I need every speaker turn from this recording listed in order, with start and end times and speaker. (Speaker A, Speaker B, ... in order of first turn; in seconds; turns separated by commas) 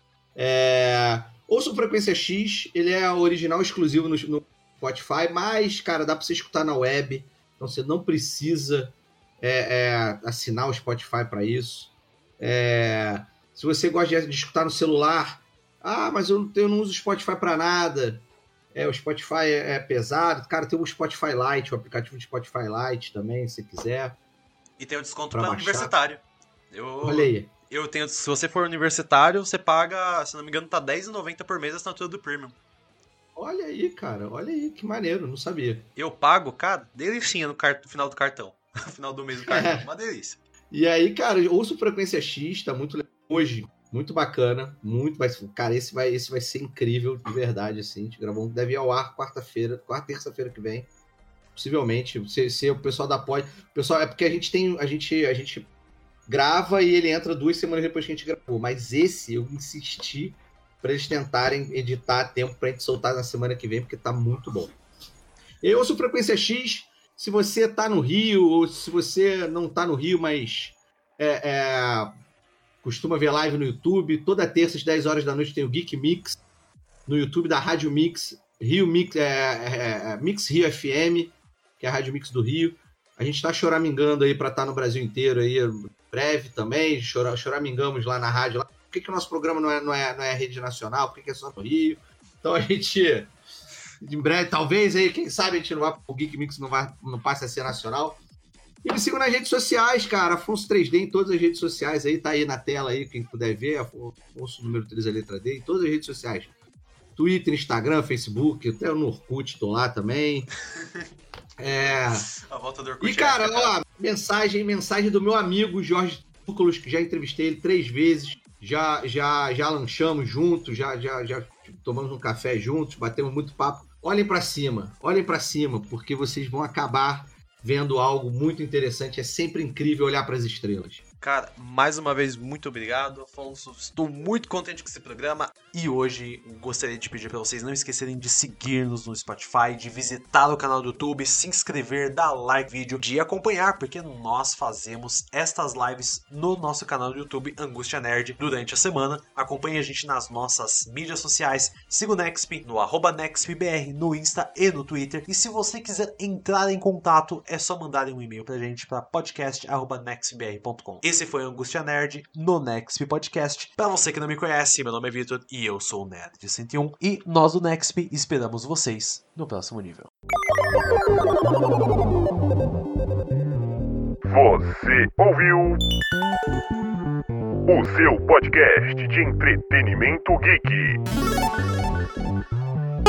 Speaker A: 0.3-24.2, Speaker B: 24.8-32.6, Speaker A: 25.3-25.9, Speaker A: 27.0-27.5, Speaker A: 33.4-35.9, Speaker B: 36.0-40.4, Speaker A: 39.4-39.8, Speaker A: 40.7-50.9, Speaker A: 51.5-55.7, Speaker A: 56.3-64.7, Speaker A: 65.6-72.1, Speaker A: 72.8-76.4, Speaker A: 77.1-93.3, Speaker A: 94.0-98.2, Speaker A: 98.8-106.5, Speaker A: 107.2-110.5, Speaker A: 111.6-112.3, Speaker B: 111.9-113.8, Speaker A: 113.0-131.0, Speaker B: 131.2-170.1, Speaker C: 174.3-175.8, Speaker C: 177.7-181.0